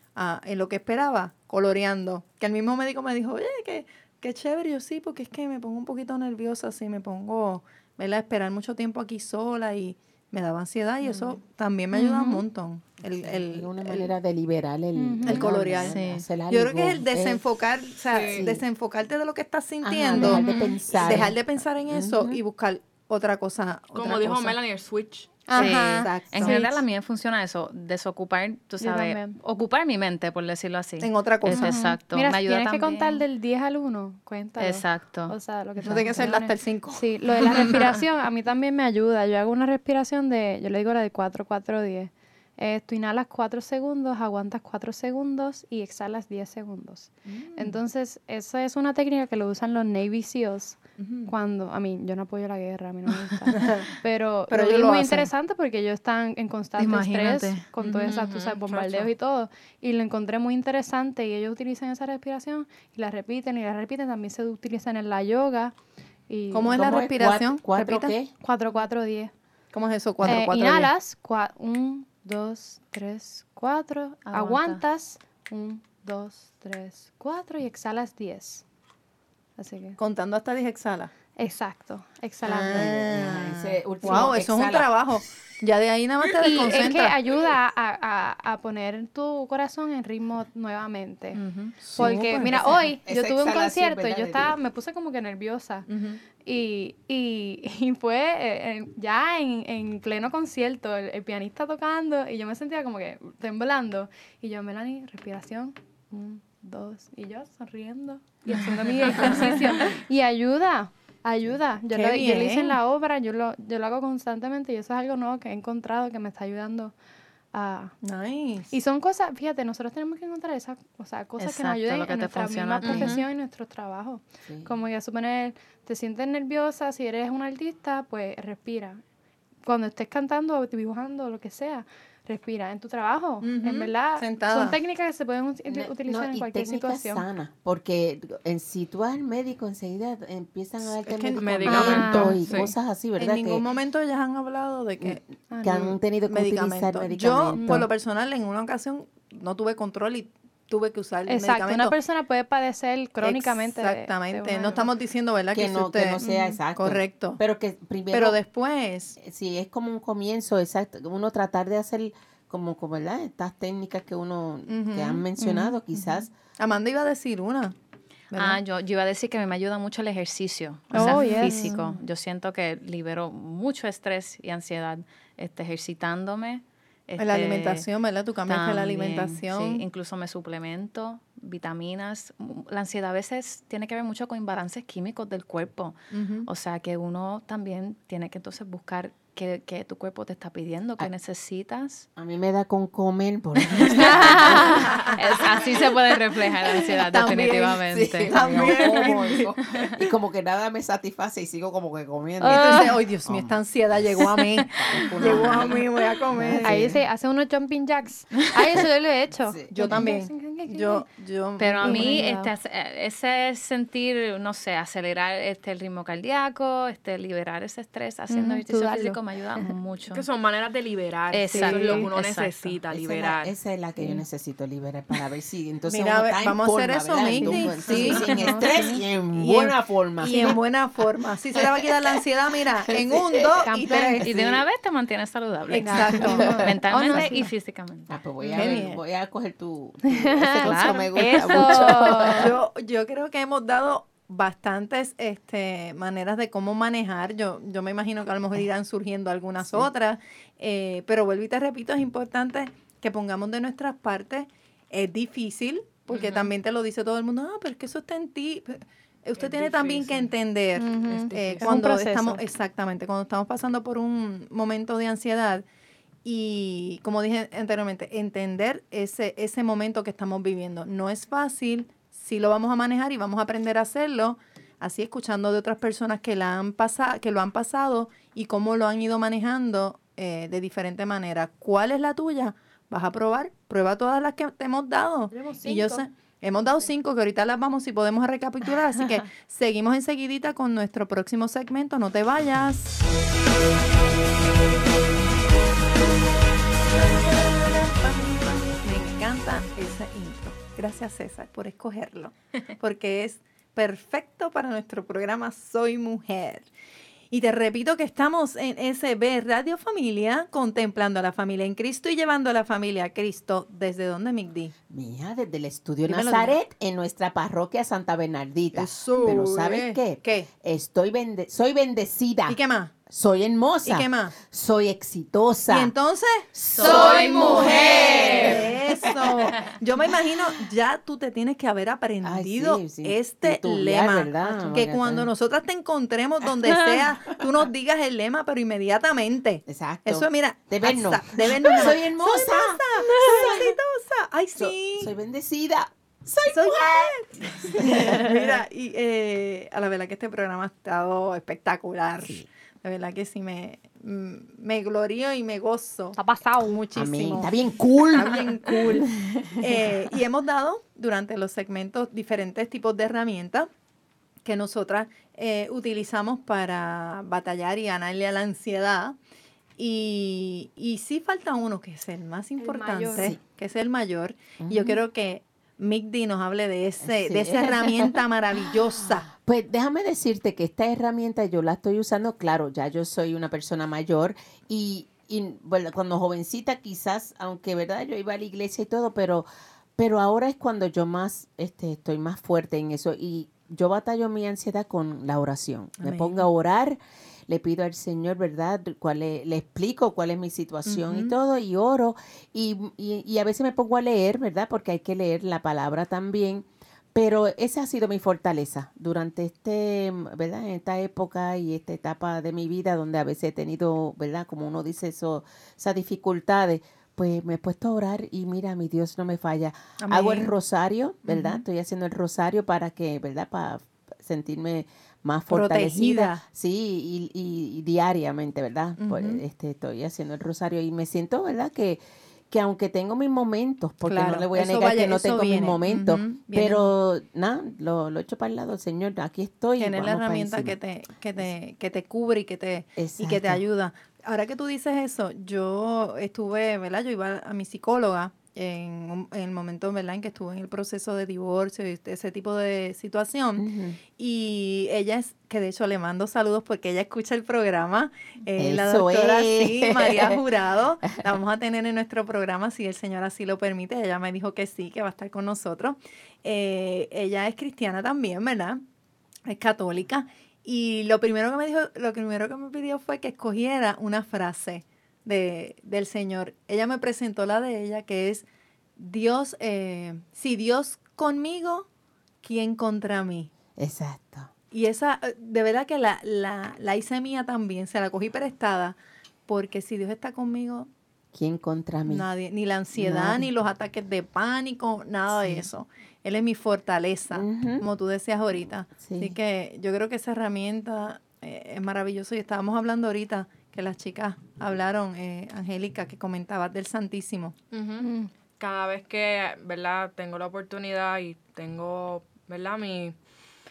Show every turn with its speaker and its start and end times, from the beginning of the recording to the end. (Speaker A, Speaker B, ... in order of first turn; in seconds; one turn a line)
Speaker A: 0.1-14.1
Speaker B: 11.9-12.4
Speaker C: 13.1-17.4
Speaker B: 14.9-15.5
Speaker A: 15.2-16.0
Speaker D: 15.8-16.2
Speaker A: 16.5-24.6
Speaker E: 18.1-18.4
Speaker C: 18.3-18.6
Speaker C: 19.8-22.4
Speaker B: 20.1-20.7
Speaker E: 23.9-25.4
Speaker B: 25.4-26.8
Speaker A: 25.5-26.6
Speaker D: 25.5-33.2
Speaker B: 28.8-29.4
Speaker A: 31.0-31.8
Speaker B: 31.5-65.7
Speaker D: 34.6-35.4
Speaker A: 35.8-37.9
Speaker A: 47.2-47.8
Speaker A: 51.0-51.3
Speaker A: 53.5-53.9
Speaker A: 54.5-55.3
Speaker D: 56.8-57.7
Speaker A: 57.8-58.3
Speaker E: 58.0-59.1
Speaker B: 66.3-66.8
Speaker A: 66.5-67.8
Speaker C: 66.7-68.3
Speaker B: 67.8-69.3
Speaker A: 69.7-70.9
Speaker B: 70.2-78.6
Speaker D: 74.2-74.8
Speaker B: 79.6-80.0
Speaker A: 80.0-81.1
Speaker B: 81.4-83.0
Speaker C: 82.4-84.9
Speaker A: 82.5-87.2
Speaker B: 84.0-84.3
Speaker B: 86.4-91.4
Speaker D: 91.3-91.7
Speaker A: 91.8-92.7
Speaker C: 92.0-94.5
Speaker B: 92.0-95.9
Speaker A: 95.9-96.2
Speaker B: 96.4-116.9
Speaker A: 111.9-112.8
Speaker B: 117.5-118.0
Speaker A: 118.0-118.7
Speaker B: 118.7-129.0
Speaker D: 121.4-123.2
Speaker A: 122.9-123.2
Speaker C: 124.5-124.8
Speaker B: 129.6-137.2
Speaker A: 133.4-134.8
Speaker C: 135.6-143.6
Speaker A: 140.8-142.1
Speaker E: 141.4-142.7
Speaker B: 141.7-142.7
Speaker A: 143.2-145.2
Speaker C: 145.0-147.9
Speaker B: 145.5-145.9
Speaker A: 146.2-151.9
Speaker B: 147.6-147.8
Speaker B: 151.3-154.9
Speaker A: 153.2-157.4
Speaker C: 155.5-158.4
Speaker B: 156.2-156.6
Speaker A: 158.1-159.2
Speaker C: 159.2-166.3
Speaker A: 164.7-165.3
Speaker B: 165.4-165.8
Speaker A: 165.9-167.7
Speaker A: 168.3-168.6
Speaker D: 168.3-177.9
Speaker A: 170.9-171.8
Speaker B: 170.9-171.9
Speaker A: 177.2-179.8
Speaker D: 178.5-192.1
Speaker A: 186.1-186.5
Speaker C: 192.2-195.8
Speaker D: 193.6-199.0
Speaker B: 194.0-194.8
Speaker A: 197.0-199.6
Speaker C: 197.9-203.5
Speaker A: 202.4-206.9
Speaker B: 202.4-202.9
Speaker C: 204.1-207.0
Speaker B: 205.2-205.8
Speaker B: 206.6-211.1
Speaker C: 209.4-210.1
Speaker A: 209.7-212.2
Speaker D: 211.6-220.2
Speaker B: 211.8-212.5
Speaker B: 218.3-219.7
Speaker E: 220.1-223.5
Speaker D: 221.3-222.8
Speaker B: 221.5-222.1
Speaker A: 221.5-222.0
Speaker C: 222.9-230.6
Speaker A: 225.9-234.3
Speaker B: 227.4-228.9
Speaker D: 227.9-228.9
Speaker B: 230.2-230.6
Speaker C: 231.5-231.9
Speaker C: 232.9-233.7
Speaker B: 233.7-234.2
Speaker D: 234.2-238.1
Speaker C: 234.2-234.6
Speaker A: 235.7-236.5
Speaker B: 235.8-237.5
Speaker C: 236.2-237.3
Speaker C: 238.1-242.5
Speaker E: 238.4-238.7
Speaker A: 238.5-239.0
Speaker B: 240.2-242.6
Speaker D: 240.6-242.3
Speaker A: 242.3-265.6
Speaker E: 256.1-256.5
Speaker E: 259.4-260.3
Speaker B: 260.8-262.4
Speaker E: 261.0-261.8
Speaker A: 266.2-292.9
Speaker B: 285.3-286.0
Speaker A: 296.9-306.7
Speaker A: 307.3-314.7
Speaker C: 314.9-325.9
Speaker A: 316.0-316.6
Speaker A: 318.7-320.5
Speaker A: 322.5-322.9
Speaker A: 323.8-324.4
Speaker A: 325.7-345.1
Speaker D: 326.6-328.5
Speaker C: 326.7-329.4
Speaker E: 326.9-328.6
Speaker C: 332.2-335.3
Speaker C: 339.6-343.6
Speaker C: 344.6-348.4
Speaker A: 346.5-363.7
Speaker B: 356.2-356.8
Speaker C: 356.9-360.0
Speaker A: 364.4-369.2
Speaker A: 369.8-379.3
Speaker B: 372.6-373.4
Speaker C: 374.6-375.0
Speaker C: 377.0-389.4
Speaker C: 390.0-440.8
Speaker A: 396.0-396.5
Speaker A: 400.9-401.3
Speaker A: 420.0-420.5
Speaker A: 421.2-421.6
Speaker A: 425.5-426.4
Speaker A: 429.0-429.4
Speaker A: 434.0-436.9
Speaker A: 439.8-468.8
Speaker C: 442.9-443.6
Speaker C: 453.6-454.0
Speaker C: 458.6-460.4
Speaker A: 469.4-478.4
Speaker A: 479.0-481.9
Speaker A: 482.4-483.5
Speaker C: 483.8-484.5
Speaker A: 484.7-490.9
Speaker C: 491.3-492.2
Speaker A: 492.1-507.5
Speaker C: 492.9-493.4
Speaker C: 497.3-497.9
Speaker C: 499.0-499.4
Speaker E: 507.7-513.2
Speaker B: 508.0-508.3